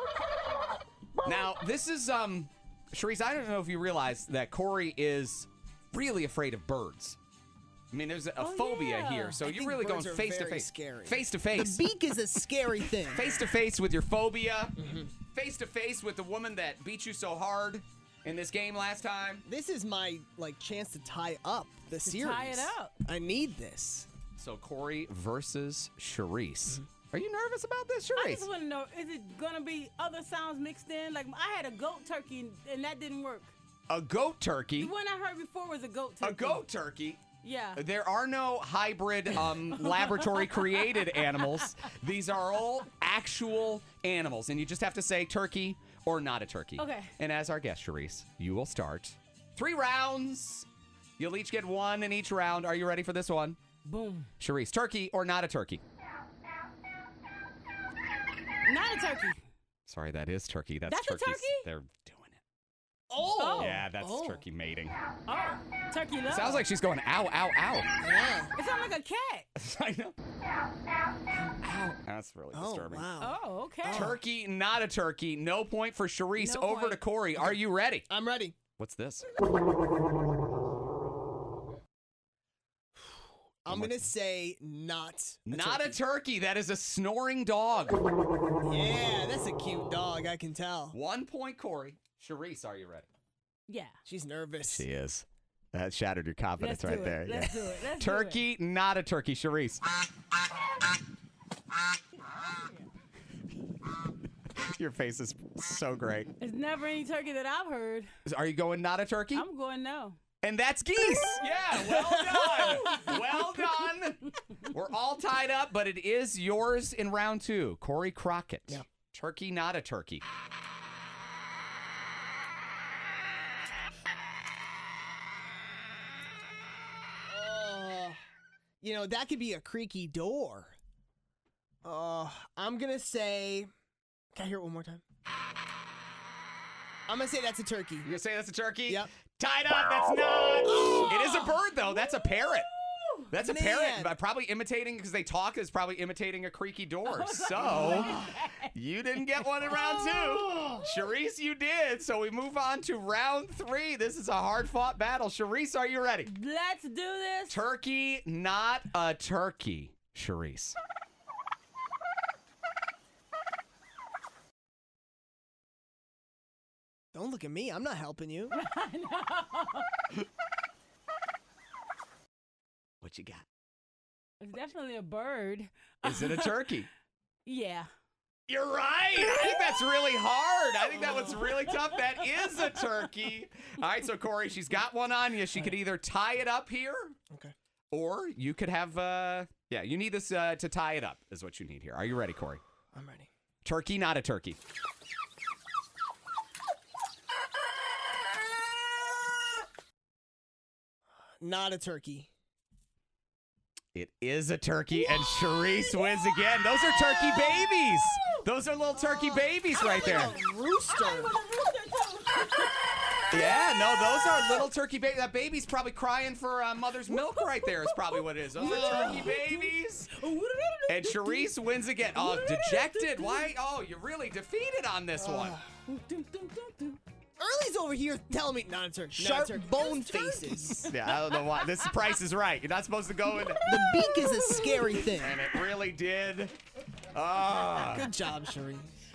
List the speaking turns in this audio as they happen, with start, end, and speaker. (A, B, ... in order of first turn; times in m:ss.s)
0:01.2-0:07.2 A
0:07.9-0:11.8 A
0:08.4-0:09.4 B
0:09.4-0:13.4 C
0:13.1-0:14.8 A
0:14.8-0:15.1 C
0:15.3-0:19.4 A
0:19.4-0:24.1 C
0:22.0-0:22.9 B
0:24.4-0:28.5 A
0:28.1-0:33.5 B
0:33.9-0:34.9 A
0:34.8-0:36.6 B
0:36.2-0:37.2 A
0:37.4-0:37.8 B
0:37.8-0:53.6 A
0:39.4-0:41.7 B
0:46.8-0:47.1 B
0:53.8-0:54.3 B
0:54.4-0:55.8 A
0:58.6-0:59.4 B
0:59.8-1:02.4 A
1:00.8-1:01.7 B
1:03.1-1:04.4 C
1:03.4-1:03.8 B
1:03.6-1:05.0 A
1:05.3-1:06.6 B
1:06.3-1:07.9 A
1:08.0-1:08.5 C
1:08.5-1:09.5 B
1:09.6-1:10.2 A
1:11.3-1:13.1 A
1:12.5-1:14.2 C
1:13.2-1:14.2 B
1:13.9-1:18.0 A
1:16.4-1:17.0 B
1:17.4-1:18.6 C
1:18.8-1:19.2 A
1:23.6-1:26.0 C
1:23.7-1:24.1 A
1:25.5-1:28.1 A
1:28.6-1:31.0 C
1:30.9-1:33.1 A
1:33.7-1:34.0 B
1:34.0-1:34.9 C
1:34.7-1:39.8 A
1:36.6-1:38.4 B
1:44.6-1:46.3 A
1:46.4-1:48.1 B
1:48.2-1:49.4 A
1:49.3-1:50.2 B
1:50.4-2:00.2 A
1:51.7-1:53.2 C
2:07.2-2:08.2 C
2:08.8-2:10.8 C
2:11.8-2:13.7 C
2:14.3-2:15.0 C
2:17.1-2:18.1 C
2:18.0-2:22.7 A
2:23.3-2:36.3 A
2:23.3-2:24.2 C
2:27.0-2:28.7 B
2:29.6-2:30.2 B
2:36.2-2:37.6 B
2:37.5-2:40.8 A
2:47.1-2:48.6 C
2:48.5-2:49.9 B
2:53.0-2:53.4 A
2:54.4-2:56.7 B
2:56.0-2:56.9 A
2:57.4-2:57.9 B
2:58.5-3:07.1 A
3:07.9-3:12.6 A
3:12.9-3:13.3 C
3:13.6-3:14.6 A
3:21.4-3:22.3 C
3:23.9-3:30.4 A
3:25.6-3:26.0 B
3:26.7-3:28.3 B
3:29.1-3:34.0 B
3:29.3-3:31.4 C
3:33.3-3:40.1 A
3:37.1-3:43.5 B
3:38.6-3:39.4 C
3:40.9-3:45.6 A
3:45.2-3:45.7 C
3:45.9-3:47.0 B
3:47.4-3:50.9 C
3:49.2-3:49.6 A
3:49.5-3:51.6 B
3:50.8-3:53.7 A
3:53.6-3:55.4 C
3:54.1-3:54.9 B
3:55.2-3:56.5 A
3:57.1-3:58.1 A
3:57.7-3:58.9 C